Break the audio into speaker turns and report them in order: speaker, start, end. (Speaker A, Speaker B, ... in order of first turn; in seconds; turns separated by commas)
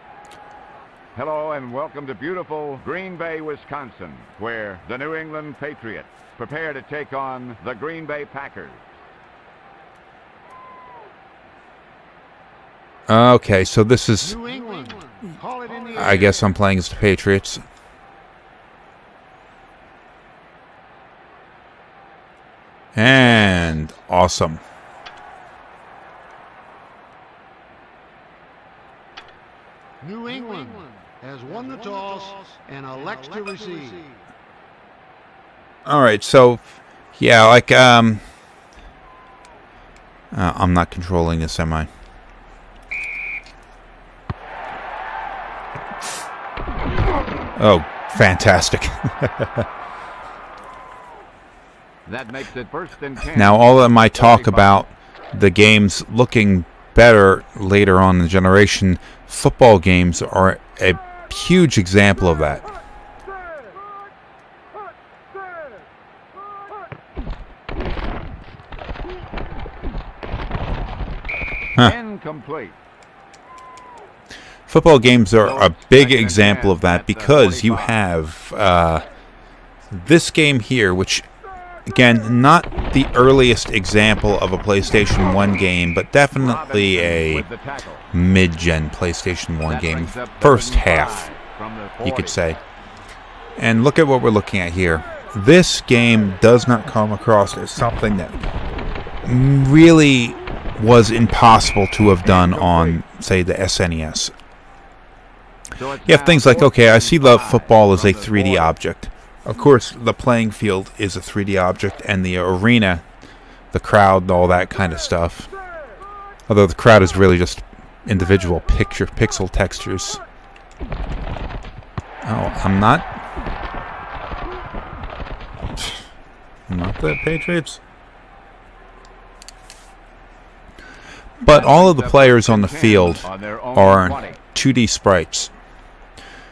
Speaker A: 1.1-8.9, Speaker B: 13.1-14.4, Speaker C: 14.2-16.5, Speaker B: 15.9-17.6, Speaker B: 22.9-24.6, Speaker C: 30.0-34.2, Speaker B: 35.9-38.2, Speaker B: 40.3-41.9, Speaker B: 47.6-49.6, Speaker A: 52.1-54.9, Speaker B: 53.2-62.6, Speaker A: 71.8-72.8, Speaker B: 74.7-79.1, Speaker A: 75.4-77.9, Speaker B: 79.9-81.3, Speaker B: 81.9-87.5, Speaker A: 86.3-88.1, Speaker B: 88.1-91.3, Speaker A: 89.7-92.4, Speaker B: 92.0-92.6, Speaker B: 93.6-98.4, Speaker B: 99.2-104.3, Speaker A: 102.3-102.9, Speaker A: 105.8-108.7, Speaker B: 106.0-113.0, Speaker B: 113.7-115.5, Speaker B: 116.5-120.2, Speaker B: 122.2-123.1, Speaker B: 126.7-127.8, Speaker B: 131.4-135.5, Speaker A: 131.4-134.4